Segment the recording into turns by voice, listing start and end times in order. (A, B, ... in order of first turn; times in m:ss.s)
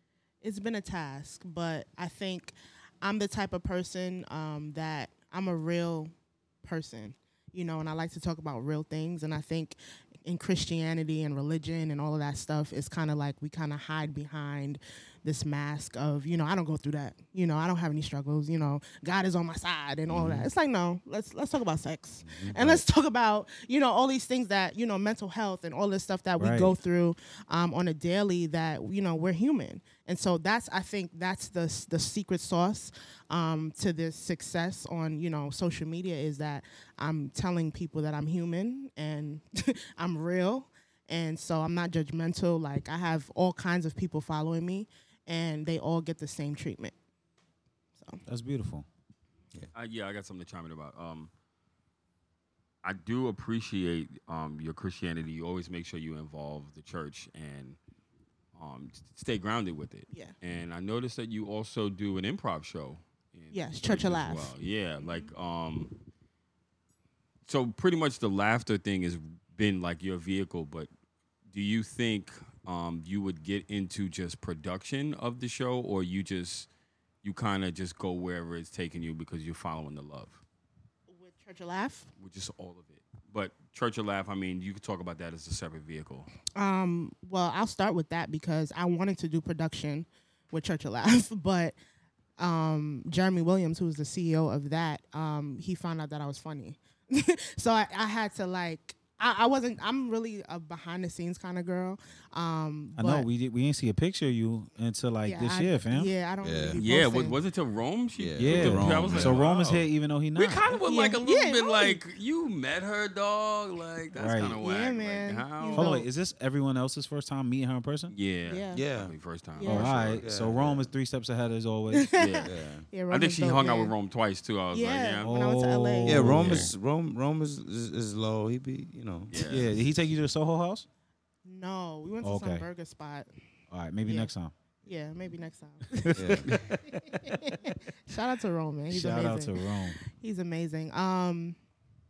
0:00.4-0:46.9 A
0:20.1-0:20.5 B
0:22.2-0:22.8 B
0:26.4-0:26.8 C
0:48.2-0:48.9 C
0:49.8-0:51.3 D
0:52.8-0:57.8 D
0:58.5-1:05.9 D
1:03.5-1:05.3 A
1:07.5-1:10.9 D
1:11.5-1:16.7 D
1:17.2-1:20.4 D
1:21.1-1:22.1 A
1:22.2-1:26.3 D
1:26.5-1:31.8 A
1:32.4-1:43.3 A
1:43.0-1:46.1 C
1:45.2-1:47.4 A
1:46.4-1:46.8 B
1:46.8-1:55.9 D
1:48.2-1:49.4 B
1:48.4-1:50.8 C
1:50.9-1:52.0 A
1:54.1-1:54.6 C
1:54.6-1:56.1 A
1:55.7-1:58.1 C
1:58.1-2:00.3 D
1:58.5-1:58.8 A
1:58.7-1:59.1 B
1:59.6-1:59.9 A
1:59.6-2:02.1 C
2:00.1-2:00.9 B
2:02.0-2:03.9 A
2:02.2-2:02.5 D
2:02.4-2:02.8 B
2:03.1-2:05.3 D
2:04.7-2:06.4 A
2:05.2-2:06.7 C
2:06.0-2:09.4 B
2:09.3-2:09.8 D
2:09.5-2:10.9 C
2:11.4-2:13.3 A
2:12.2-2:12.7 C
2:13.7-2:14.5 C
2:14.0-2:14.3 A
2:14.8-2:21.6 A
2:15.9-2:17.4 C
2:16.1-2:16.6 B
2:18.9-2:20.0 C